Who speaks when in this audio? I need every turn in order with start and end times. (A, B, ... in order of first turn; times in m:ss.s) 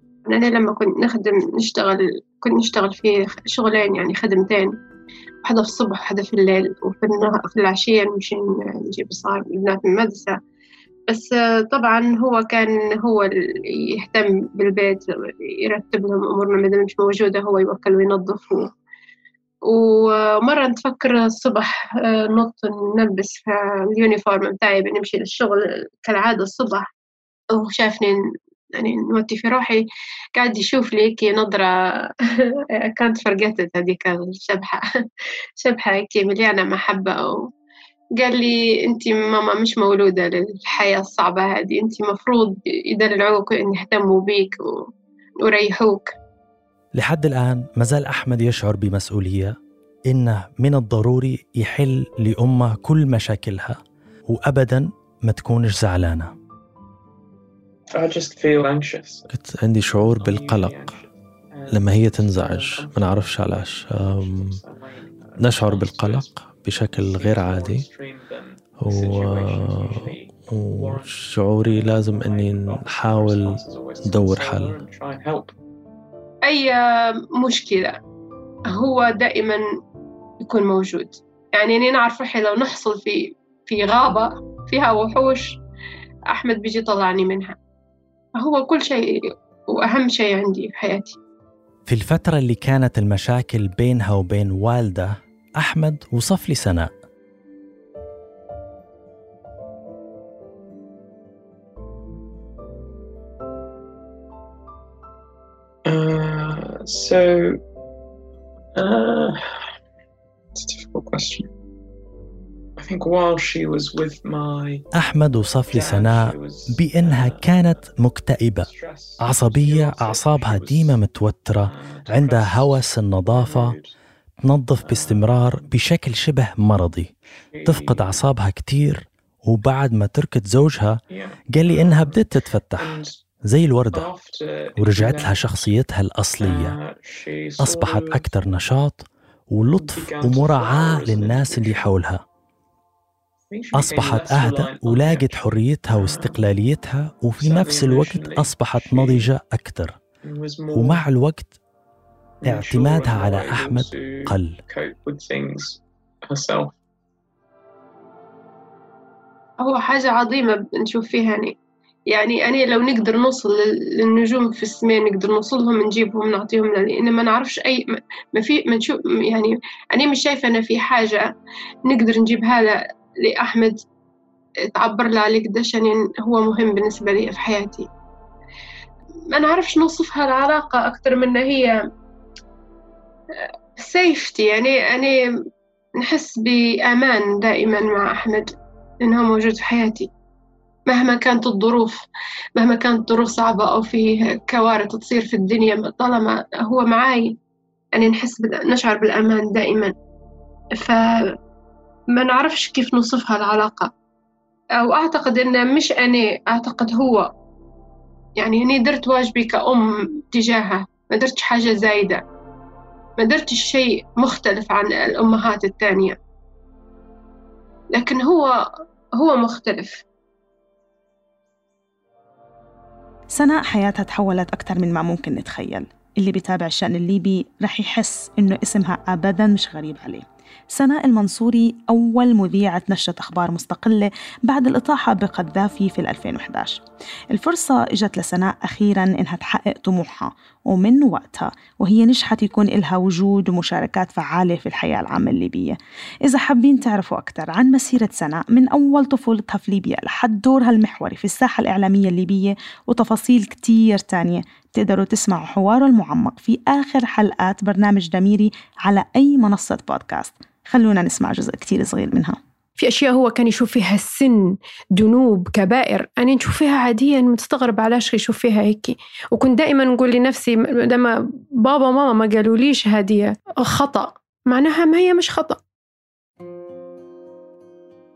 0:00.3-0:04.7 A
0:05.4-0:10.3 A
0:11.1-0:18.7 A
0:19.7-0:26.9 A
0:27.5-0:28.2 A
0:28.7-0:29.8 A
0:30.3-0:31.7 A
0:32.8-0:34.8 A
0:35.6-0:37.4 A
0:38.2-0:44.8 A
0:45.4-0:46.1 A
0:47.0-0:49.6 B
0:50.1-0:56.3 B
0:57.9-0:59.3 C
0:59.3-1:00.8 B
1:00.0-1:06.3 C
1:01.7-1:04.6 B
1:05.4-1:07.8 B
1:07.0-1:15.5 C
1:08.8-1:14.8 B
1:16.4-1:16.8 A
1:17.4-1:18.0 A
1:18.7-1:19.6 A
1:20.4-1:25.6 A
1:26.3-1:27.6 A
1:28.4-1:29.1 A
1:29.7-1:31.2 A
1:31.9-1:36.9 B
1:45.8-1:47.6 C
1:48.8-1:49.7 C
1:50.5-1:51.5 C
1:52.8-1:54.9 C
1:54.9-1:58.7 B
1:55.7-1:57.8 C
1:58.6-2:01.0 C
1:59.2-2:03.8 B
2:01.6-2:03.9 C
2:04.4-2:07.1 B
2:04.8-2:05.7 C
2:07.5-2:08.2 C
2:07.6-2:11.0 B
2:11.1-2:12.2 C
2:11.5-2:14.1 B
2:12.8-2:13.2 C
2:13.9-2:15.6 C
2:14.8-2:16.8 B
2:16.4-2:18.2 C
2:17.6-2:22.2 B
2:19.8-2:21.9 C
2:23.5-2:26.4 C
2:23.7-2:30.0 B
2:27.4-2:29.3 C
2:30.2-2:31.0 C
2:30.7-2:31.5 B
2:32.4-2:36.7 C
2:32.4-2:34.6 B
2:39.6-2:41.5 A
2:42.1-2:47.8 A
2:48.3-2:51.3 A
2:51.9-2:53.8 A
2:54.7-2:57.9 A
2:59.3-3:01.8 A
3:03.3-3:05.2 A
3:06.0-3:08.5 A
3:09.0-3:10.1 A
3:10.9-3:12.0 A
3:12.6-3:17.3 A
3:17.9-3:19.9 A
3:20.8-3:21.3 A
3:22.1-3:23.9 A
3:24.8-3:27.3 A
3:28.4-3:32.2 A
3:33.2-3:36.2 A
3:37.9-3:38.5 A
3:39.2-3:40.0 A
3:43.3-4:22.4 D
4:22.8-4:31.1 E
4:31.6-4:35.6 E